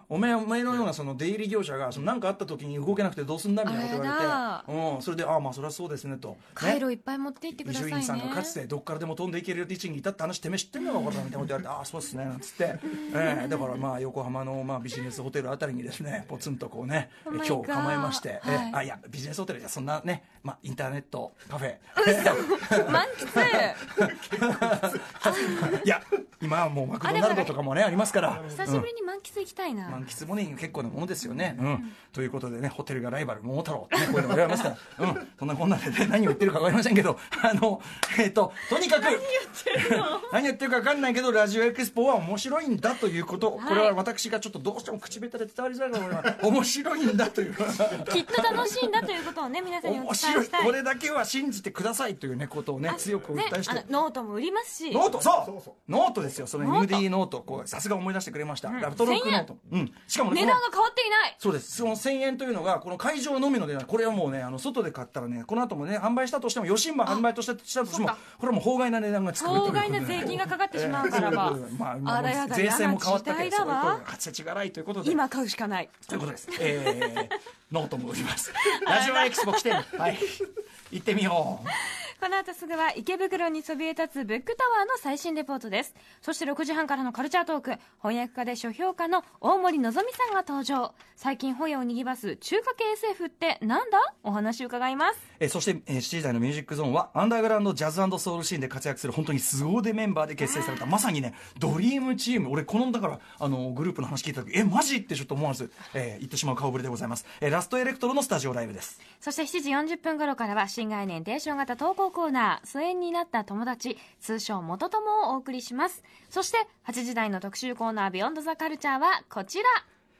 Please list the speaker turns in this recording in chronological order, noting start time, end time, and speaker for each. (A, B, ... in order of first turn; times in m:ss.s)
0:00.1-0:06.8 A
0:03.6-0:04.7 B
0:06.6-0:08.6 B
0:07.6-0:28.9 A
0:10.8-0:11.3 B
0:12.8-0:13.8 B
0:17.2-0:18.8 B
0:21.9-0:24.0 B
0:25.2-0:25.9 B
0:27.0-0:27.6 B
0:28.4-0:30.0 B
0:29.9-0:49.1 A
0:31.5-0:31.8 B
0:33.9-0:34.7 B
0:38.7-0:40.3 B
0:43.6-0:44.0 B
0:48.0-0:50.8 B
0:49.8-0:53.8 A
0:52.8-0:55.1 B
0:54.9-1:00.6 A
0:56.6-0:57.1 B
0:58.7-0:59.5 B
1:00.3-1:01.4 B
1:01.4-1:15.2 A
1:07.8-1:08.2 B
1:09.3-1:14.0 B
1:15.0-1:17.3 B
1:16.0-1:21.8 A
1:18.6-1:19.9 B
1:21.7-1:35.2 B
1:35.4-1:49.0 A
1:40.5-1:40.9 B
1:49.2-1:59.8 B